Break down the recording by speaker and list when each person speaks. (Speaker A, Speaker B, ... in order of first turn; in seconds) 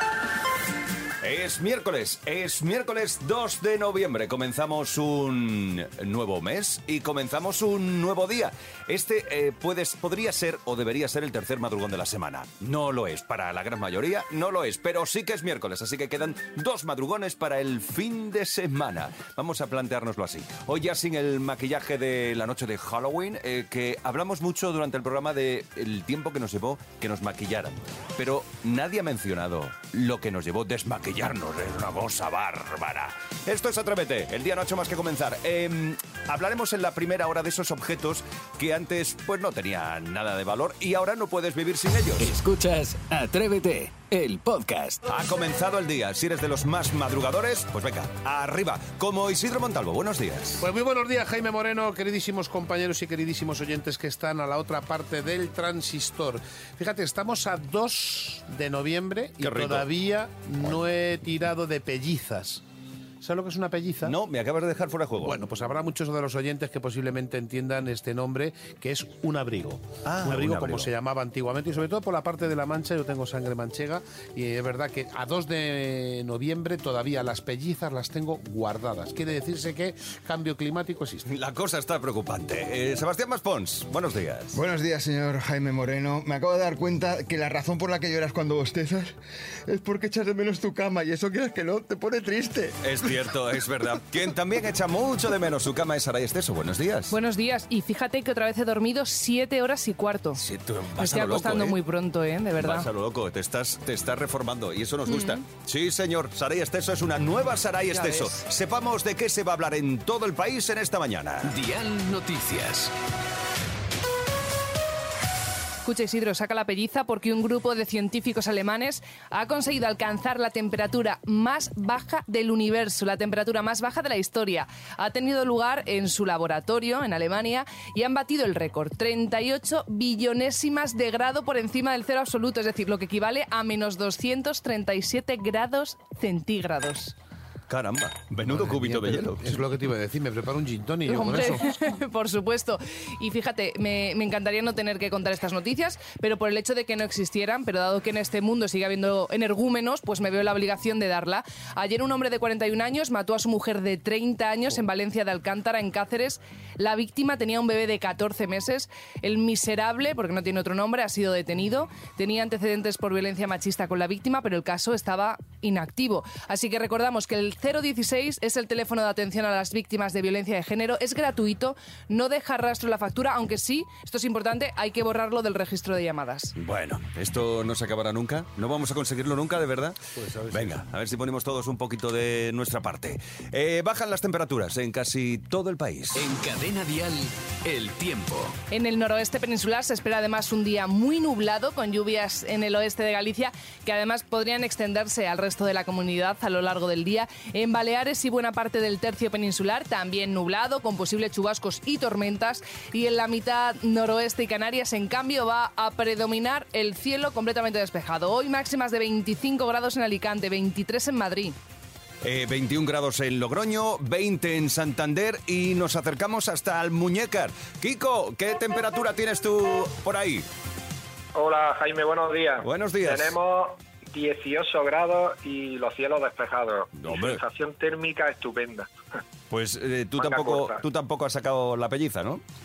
Speaker A: 1.2-42.3, 45.1-50.7, 59.4-59.9, 64.0-65.4, 70.0-70.9, 81.3-84.6, 92.8-97.1, 100.4-101.8, 102.6-111.5, 137.7-139.6, 176.6-180.0, 180.5-186.2, 212.2-220.5, 222.6-223.4, 226.9-227.4, 229.5-232.4
Speaker B: 42.2-45.0, 111.4-112.9, 186.1-188.6
Speaker C: 50.6-62.6, 63.2-64.2, 65.2-81.3, 138.4-141.7, 180.2-180.8
Speaker D: 84.5-89.2, 89.7-92.8
Speaker E: 97.1-100.4, 101.0-102.9, 105.1-105.4, 107.9-108.4, 115.8-137.2, 141.1-176.5, 188.7-211.6
Speaker F: 221.3-228.9, 230.2-230.8